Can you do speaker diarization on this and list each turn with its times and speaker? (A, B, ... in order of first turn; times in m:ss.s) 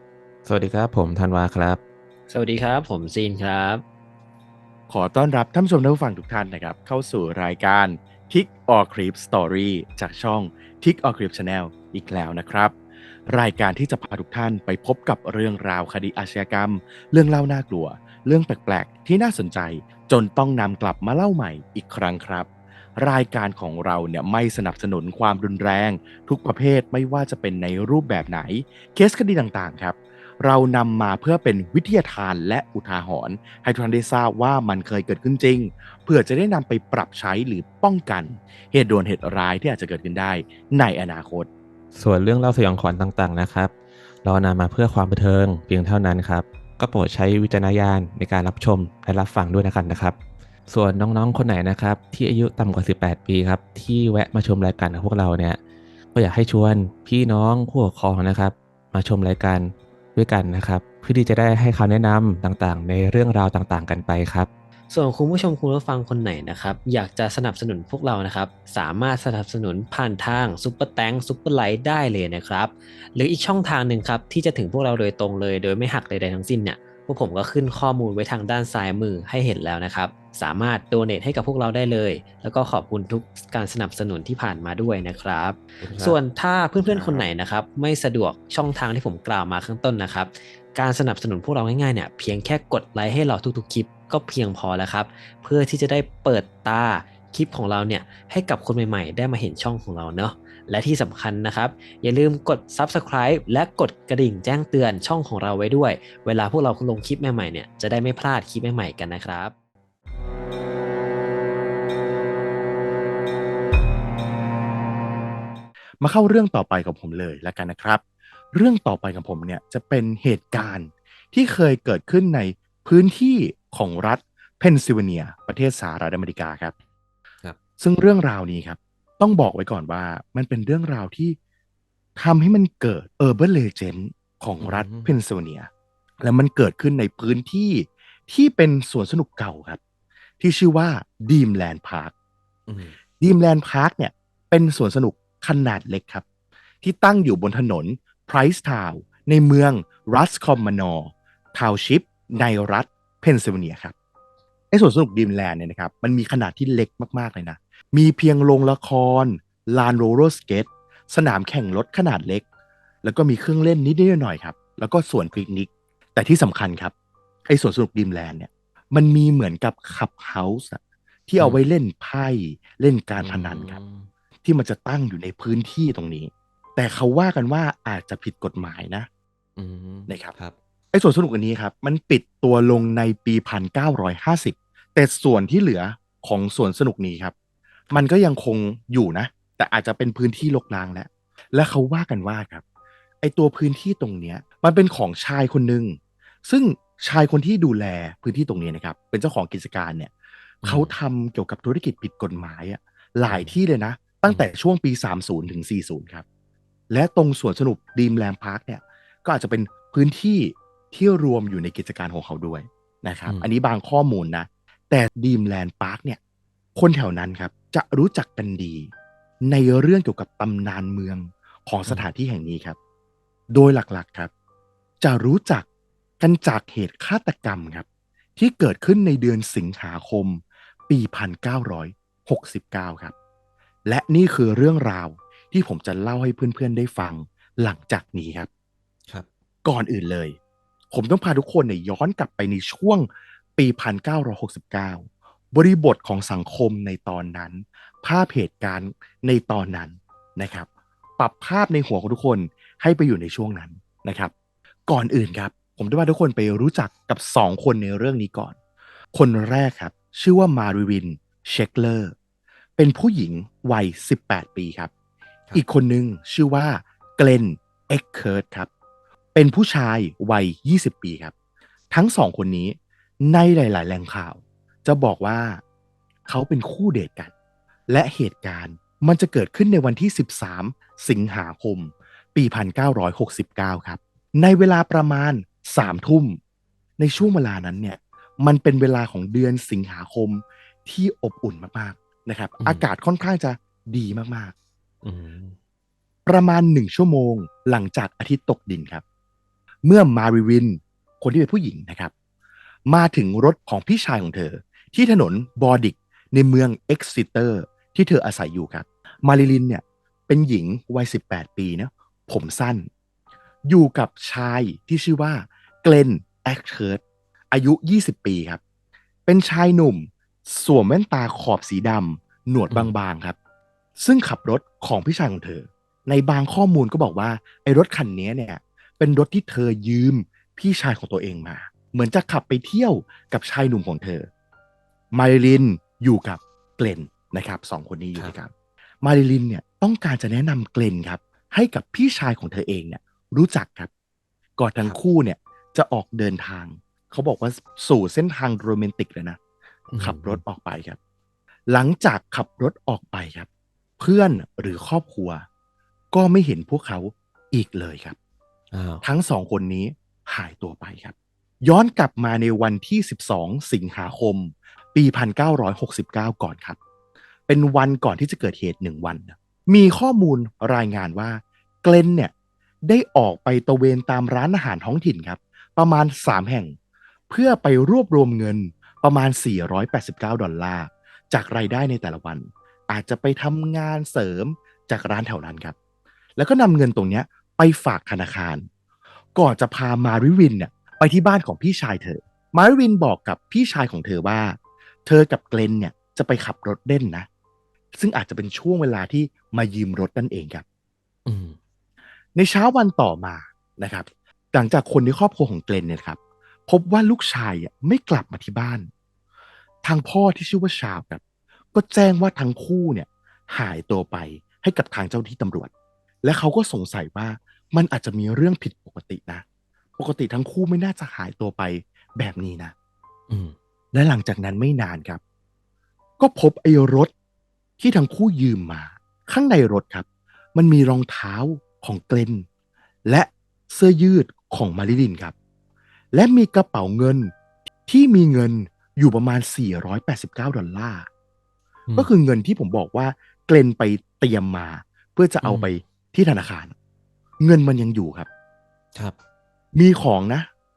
0:00.4-0:01.8 A
0:02.3-0:03.8 B
0:04.9-0:12.7 C
0:13.3-0:41.5 C
0:41.9-0:43.7 A
0:44.2-0:50.2 A
0:50.7-0:55.6 A
0:56.1-1:04.5 A
1:04.9-1:49.5 B
1:25.8-1:26.2 A
1:26.8-1:27.2 A
1:56.0-1:58.0 C
1:58.5-2:06.7 C
2:07.8-2:11.4 C
2:12.2-2:15.7 C
2:14.6-2:15.1 A
2:16.2-2:19.8 C
2:20.4-2:22.1 C
2:22.7-2:23.0 A
2:23.2-2:26.2 C
2:26.8-2:33.9 C
2:34.7-2:42.4 C
2:43.0-2:46.9 C
2:47.5-2:53.8 C
2:53.2-2:54.1 A
2:54.4-2:59.1 C
2:59.6-3:00.5 A
3:00.1-3:00.3 C
3:00.9-3:07.3 C
3:07.9-3:12.6 C
3:13.2-3:20.1 C
3:20.6-3:20.9 A
3:20.6-3:26.2 C
3:23.3-3:23.5 A
3:26.9-3:36.2 C
3:36.8-3:38.9 C
3:39.4-3:42.8 C
3:43.5-3:44.3 C
3:45.0-3:45.6 C
3:46.2-3:53.1 C
3:53.8-3:58.5 C
3:59.6-4:00.4 C
4:00.9-4:14.3 C
4:14.9-4:18.6 C
4:19.1-4:22.1 C
4:22.8-4:24.9 C
4:25.5-4:28.7 C
4:29.3-4:31.3 C
4:31.9-4:35.6 C
4:36.3-4:37.3 C
4:37.9-4:46.4 C
4:47.0-4:54.5 C
4:55.0-4:55.6 A
4:56.2-4:59.0 C
4:59.8-5:02.1 C
5:02.9-5:12.9 C
5:13.7-5:18.6 C
5:19.2-5:23.4 C
5:24.0-5:34.3 C
5:35.1-5:38.5 C
5:39.0-5:43.9 C
5:44.6-5:49.4 C
5:49.9-5:50.4 A
5:50.0-5:51.0 C
5:51.7-5:53.5 C
5:54.0-5:55.4 C
5:56.1-5:58.2 C
5:58.7-5:59.0 A
5:59.0-6:06.8 C
6:07.5-6:12.3 C
6:12.8-6:16.8 C
6:17.3-6:25.7 C
6:26.4-6:28.7 C
6:29.4-6:37.3 C
6:37.9-6:40.6 C
6:41.2-6:41.6 A
6:42.4-6:48.9 C
6:49.8-6:51.2 C
6:51.7-6:55.7 C
6:56.2-6:59.4 C
7:00.0-7:02.7 C
7:03.3-7:03.5 A
7:03.9-7:05.2 C
7:06.2-7:07.1 C
7:07.8-7:12.4 C
7:13.0-7:15.3 C
7:16.1-7:17.3 C
7:17.9-7:21.1 C
7:22.0-7:26.7 C
7:25.4-7:25.7 A
7:27.4-7:28.3 C
7:29.7-7:30.5 C